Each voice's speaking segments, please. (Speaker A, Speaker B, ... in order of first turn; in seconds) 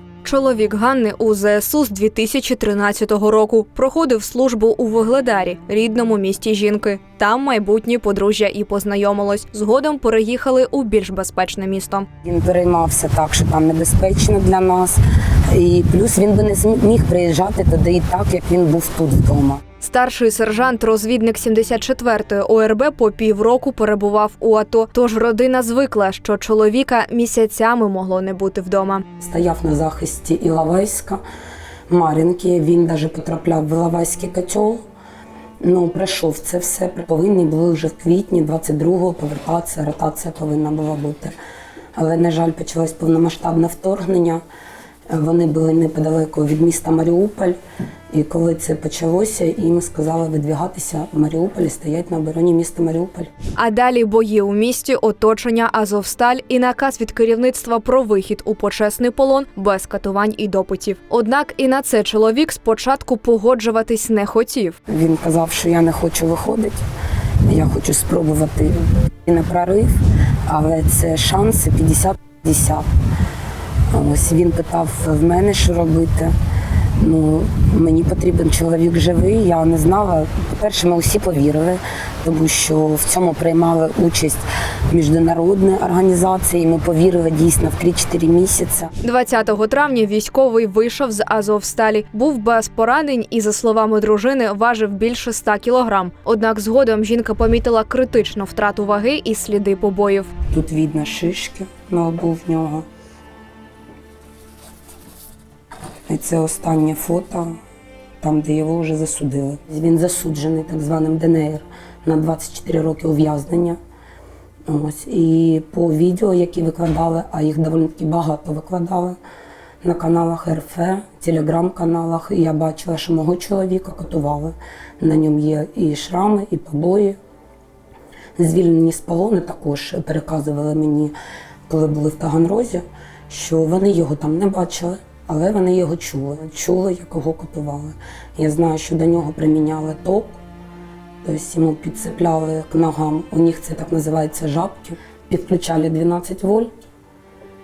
Speaker A: 0.2-12.1, 19.8-29.0, 53.5-64.8, 89.0-100.3
Speaker B: 12.2-15.0, 15.5-19.6, 29.2-31.2, 31.9-34.8, 35.6-41.3, 42.0-44.4, 45.1-47.6, 48.1-53.3, 64.9-66.8, 67.4-72.9, 73.9-76.3, 77.0-88.9, 100.5-102.8, 106.1-107.6, 108.2-113.8, 114.7-119.2, 119.8-127.2, 128.4-131.1, 131.7-140.4, 141.2-146.7